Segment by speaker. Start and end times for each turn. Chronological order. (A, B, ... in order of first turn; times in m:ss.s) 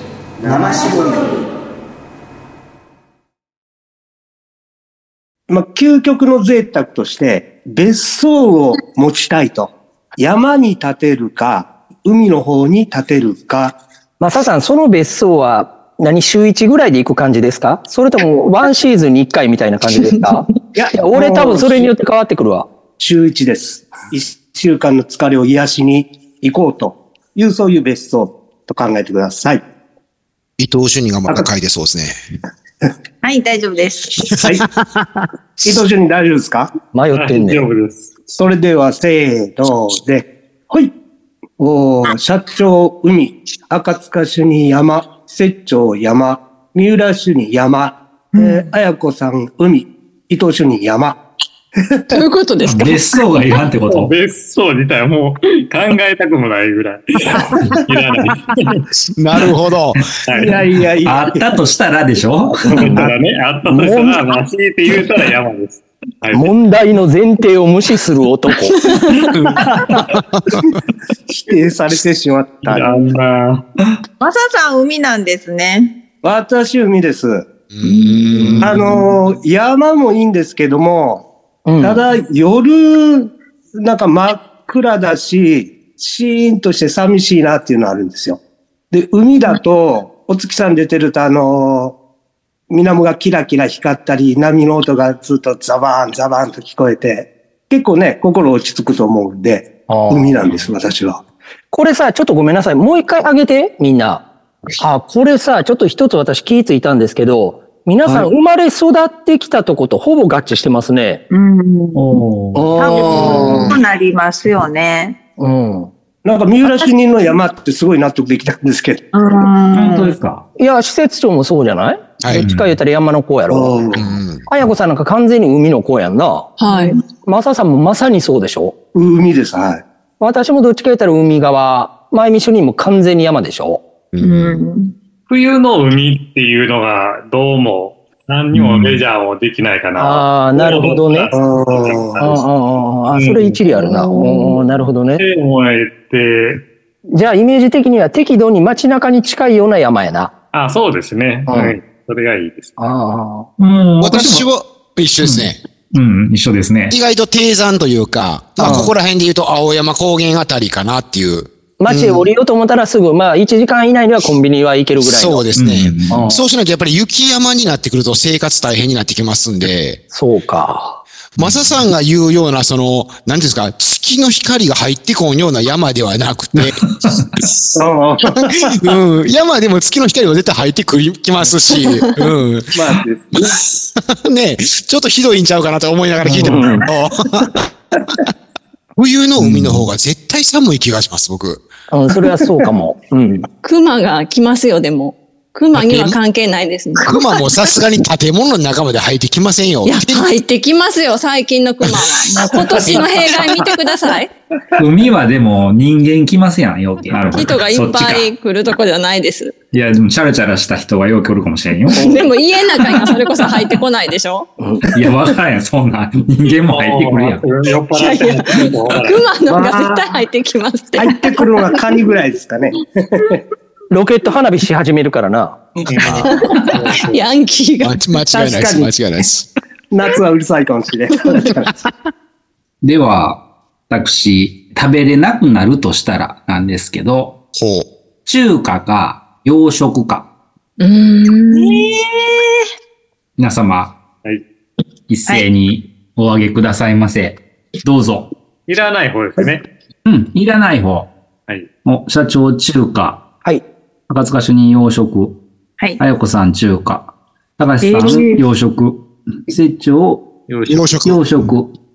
0:00.5-0:01.3 A
0:05.5-0:13.8 A
0:14.2-0:22.7 B
0:20.6-0:21.9 A
0:23.0-0:29.6 A
0:30.6-0:32.2 C
0:33.2-0:34.1 D
0:34.2-0:35.2 C
0:34.4-0:34.6 A
0:35.6-0:36.7 A
0:36.9-0:37.6 B
0:37.1-0:38.1 E
0:38.3-0:40.9 A
0:41.6-0:51.2 A
0:52.1-0:53.6 F
0:52.6-0:54.1 G
0:53.9-0:58.8 E
0:59.2-1:00.0 C
1:00.3-1:00.6 E
1:00.4-1:01.5 A
1:01.0-1:03.0 G
1:02.7-1:06.5 E
1:02.8-1:03.1 B
1:03.6-1:04.3 B
1:06.3-1:08.8 B
1:08.8-1:09.3 F
1:09.3-1:10.2 C
1:11.4-1:13.0 A
1:12.6-1:13.6 E
1:14.2-1:15.9 D
1:16.2-1:17.4 A
1:17.7-1:18.8 C
1:18.6-1:21.2 A
1:21.6-1:22.0 B
1:21.8-1:28.4 A
1:28.9-1:32.0 A
1:32.7-1:41.2 A
1:39.9-1:40.5 B
1:41.7-1:44.3 B
1:44.8-1:51.2 B
1:51.3-1:52.2 D
1:51.9-1:52.8 G
1:52.5-1:53.7 B
1:52.8-1:55.2 D
1:52.8-1:53.2 F
1:55.4-1:55.9 B
1:56.2-1:59.0 A
1:56.6-1:57.3 D
1:59.1-2:00.1 D
1:59.7-2:00.4 G
2:00.6-2:06.6 B
2:02.3-2:02.8 G
2:03.5-2:04.1 A
2:03.9-2:04.4 C
2:06.6-2:07.0 F
2:06.6-2:07.1 D
2:07.2-2:08.8 B
2:08.9-2:09.8 A
2:10.2-2:13.8 B
2:14.1-2:14.6 C
2:14.2-2:14.9 D
2:15.3-2:22.4 E
2:18.5-2:19.0 G
2:19.9-2:21.3 B
2:21.3-2:22.4 A
2:22.2-2:25.2 B
2:23.1-2:23.6 E
2:23.8-2:24.5 F
2:25.2-2:26.6 E
2:27.1-2:30.3 B
2:30.5-2:32.7 E
2:31.5-2:31.8 B
2:32.8-2:33.5 B
2:33.6-2:34.5 G
2:34.0-2:35.6 C
2:35.2-2:37.0 G
2:36.9-2:42.3 C
2:38.6-2:38.9 B
2:38.6-2:38.9 G
2:41.8-2:45.5 B
2:45.0-2:50.0 C
2:45.5-2:46.3 G
2:46.1-2:46.4 B
2:50.1-2:51.0 B
2:51.4-2:56.8 C
2:51.4-2:51.9 G
2:56.5-2:57.3 G
2:57.7-2:58.6 A
2:58.8-3:07.5 C
3:01.8-3:02.1 F
3:02.7-3:03.6 A
3:06.2-3:06.8 B
3:09.0-3:11.6 C
3:09.4-3:09.9 G
3:11.9-3:13.5 B
3:12.3-3:12.6 A
3:13.6-3:17.1 F
3:15.7-3:16.2 C
3:17.0-3:20.3 C
3:19.8-3:24.3 F
3:22.6-3:23.0 A
3:24.8-3:28.3 G
3:27.2-3:29.5 F
3:29.7-3:32.3 G
3:31.9-3:34.5 F
3:34.8-3:37.4 G
3:36.7-3:39.2 E
3:37.9-3:41.3 F
3:39.5-3:40.1 A
3:41.0-3:43.4 A
3:43.9-3:45.6 B
3:45.8-3:47.2 E
3:46.0-3:46.4 C
3:46.3-3:48.0 F
3:47.8-3:49.5 C
3:48.3-3:48.9 A
3:49.9-3:51.7 A
3:52.8-3:57.4 G
3:57.5-3:57.9 C
3:58.2-4:00.3 G
4:00.8-4:01.9 F
4:01.8-4:02.6 D
4:03.4-4:04.0 G
4:05.1-4:08.3 G
4:08.7-4:09.7 E
4:10.0-4:11.1 G
4:11.8-4:13.2 G
4:14.1-4:15.4 G
4:16.0-4:20.3 G
4:18.1-4:18.3 D
4:20.5-4:21.0 E
4:20.7-4:21.5 C
4:21.0-4:21.8 G